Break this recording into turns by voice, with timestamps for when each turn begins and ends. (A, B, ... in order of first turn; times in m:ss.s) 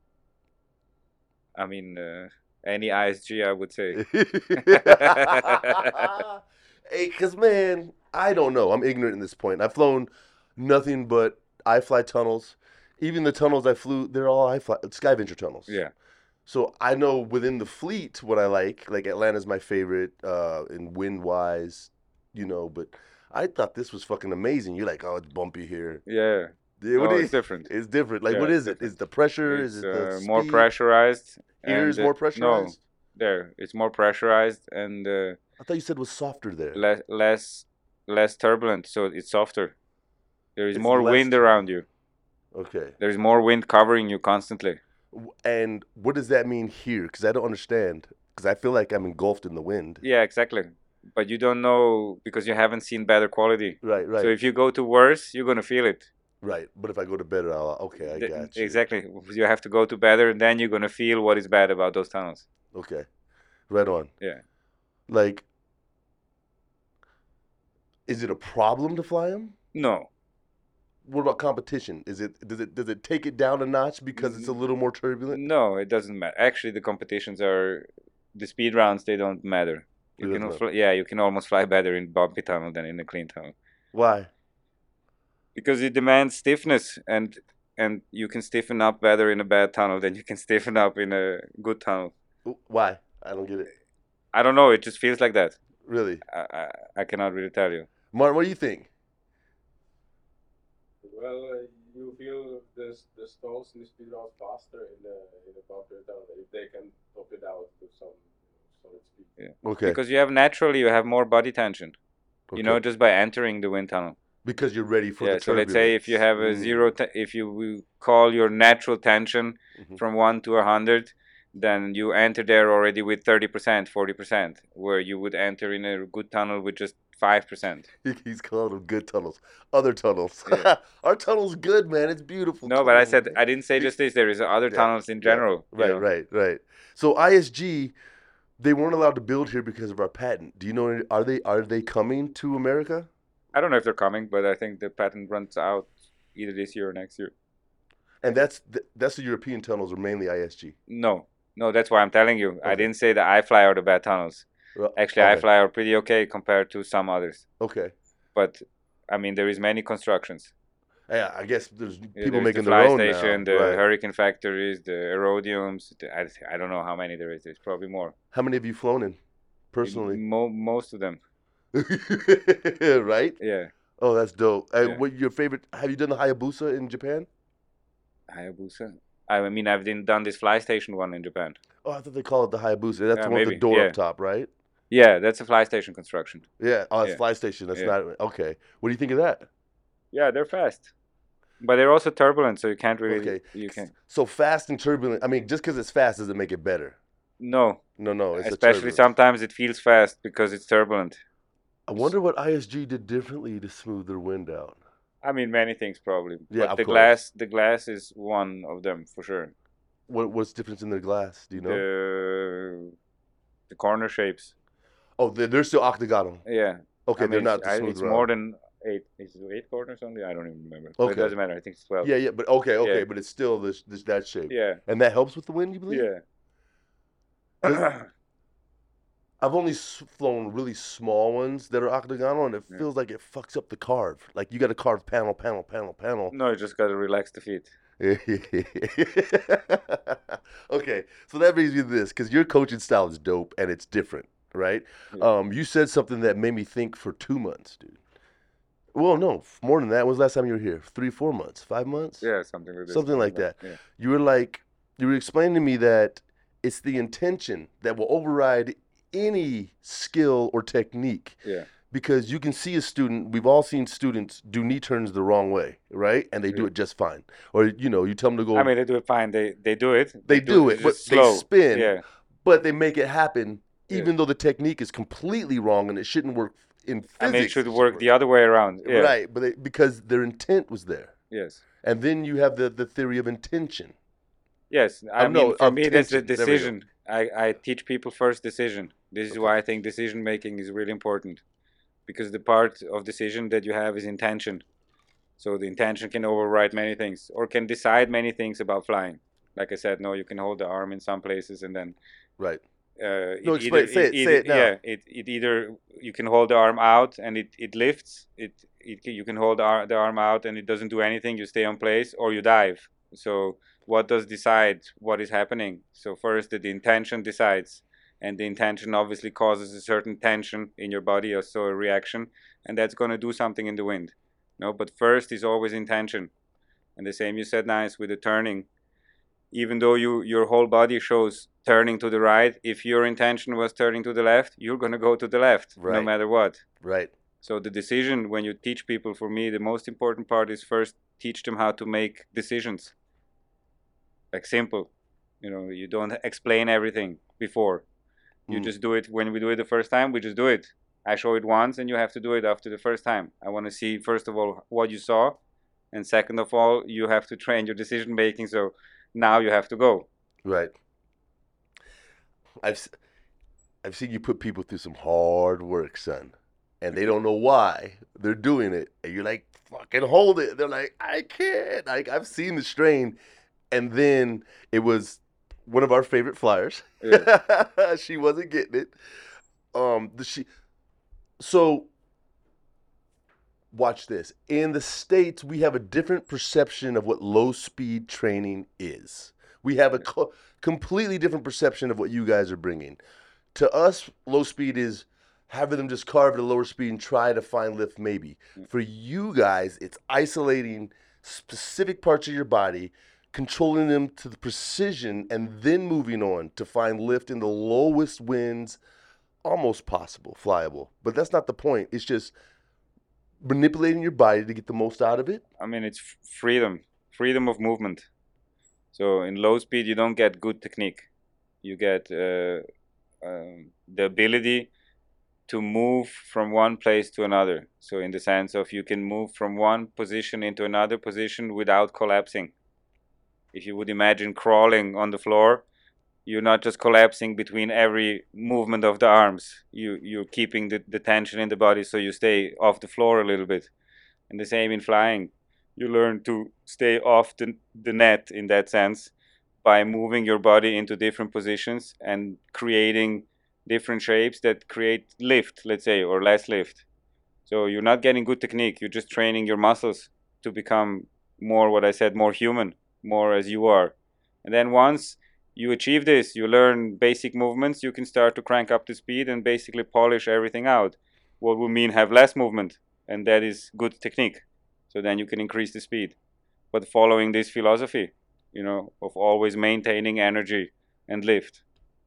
0:01.5-0:06.2 A
0:03.9-0:15.8 B
0:16.4-0:26.0 B
0:26.1-0:27.7 A
0:26.8-0:30.7 B
0:28.3-0:28.8 A
0:29.5-0:35.4 A
0:31.6-0:32.8 B
0:35.6-0:36.8 B
0:36.8-0:39.8 A
0:40.6-0:41.8 A
0:40.7-0:41.6 B
0:42.5-0:42.9 B
0:43.0-0:44.8 A
0:45.1-0:50.0 B
0:50.0-0:56.1 A
0:53.8-0:54.3 B
0:56.4-0:58.8 B
0:58.1-1:02.4 A
1:02.7-1:03.1 B
1:03.7-1:04.1 B
1:05.1-1:05.4 B
1:08.1-1:09.5 B
1:09.7-1:10.1 A
1:11.0-1:15.4 B
1:14.2-1:14.5 A
1:15.3-1:23.5 A
1:20.2-1:20.6 B
1:23.9-1:24.3 B
1:25.5-1:32.1 A
1:32.4-1:33.7 B
1:34.3-1:35.6 A
1:35.8-1:36.2 B
1:36.3-1:37.9 A
1:38.1-1:38.9 B
1:41.0-1:49.3 C
1:49.4-1:51.9 A
1:49.6-1:50.0 B
1:52.5-1:52.8 B
1:52.5-1:54.2 A
1:54.4-1:56.9 B
1:55.2-2:07.9 A
2:08.0-2:13.9 B
2:12.6-2:16.0 A
2:14.7-2:17.9 B
2:18.6-2:23.1 B
2:23.5-2:27.3 A
2:28.2-2:30.8 B
2:30.9-2:37.4 A
2:34.8-2:35.4 B
2:37.6-2:37.9 B
2:38.4-2:40.5 A
2:41.1-2:43.8 B
2:42.2-2:48.1 A
2:48.3-2:49.2 B
2:49.7-2:50.2 B
2:49.8-2:51.2 A
2:51.7-2:53.4 B
2:53.4-2:53.7 A
2:54.0-2:57.3 B
2:58.3-3:01.6 A
3:01.8-3:04.5 B
3:03.1-3:03.9 A
3:04.9-3:06.4 A
3:06.6-3:09.5 B
3:10.1-3:10.9 A
3:11.6-3:13.9 A
3:13.1-3:17.0 B
3:17.4-3:17.8 A
3:18.0-3:19.0 B
3:18.4-3:21.2 A
3:21.9-3:24.8 B
3:25.2-3:29.5 A
3:26.5-3:27.1 B
3:30.1-3:31.8 B
3:31.6-3:32.9 A
3:33.7-3:34.5 A
3:35.2-3:36.4 B
3:36.4-3:42.1 A
3:37.0-3:38.3 B
3:41.0-3:41.3 B
3:42.0-3:46.1 B
3:44.5-3:44.8 A
3:45.9-3:46.2 A
3:47.6-3:48.1 A
3:49.4-3:56.3 B
3:56.3-3:57.7 A
3:58.0-4:08.0 B
4:08.9-4:12.2 B
4:12.2-4:13.8 A
4:12.9-4:21.4 B
4:21.9-4:28.7 B
4:28.5-4:32.0 A
4:30.3-4:38.1 B
4:37.2-4:39.1 A
4:38.8-4:41.1 B
4:41.3-4:41.6 A
4:41.8-4:43.9 B
4:44.7-4:51.4 A
4:45.2-4:46.7 B
4:52.1-4:54.6 A
4:55.4-5:02.0 A
5:03.0-5:26.3 A
5:03.4-5:04.7 B
5:27.0-5:28.7 A
5:29.5-5:36.6 A
5:35.8-5:36.1 B
5:36.8-5:37.1 B
5:37.4-5:42.9 A
5:44.3-5:44.9 A
5:45.4-5:47.8 A
5:48.5-5:55.4 A
5:55.9-6:00.1 A
6:00.4-6:00.7 B
6:02.6-6:02.9 B
6:03.8-6:13.2 B
6:13.7-6:18.9 B
6:17.0-6:17.3 A
6:19.7-6:20.5 B
6:21.4-6:21.9 B
6:23.7-6:33.0 B
6:33.5-6:48.8 B
6:49.4-6:52.3 B
6:53.4-6:55.4 B
6:55.6-6:58.1 A
6:58.9-7:01.1 A
7:01.6-7:02.6 A
7:03.2-7:04.7 A
7:05.5-7:12.5 A
7:13.5-7:15.6 A
7:16.2-7:23.7 A
7:24.3-7:29.1 A
7:29.6-7:36.8 A
7:37.5-7:56.2 A
7:56.7-8:01.6 A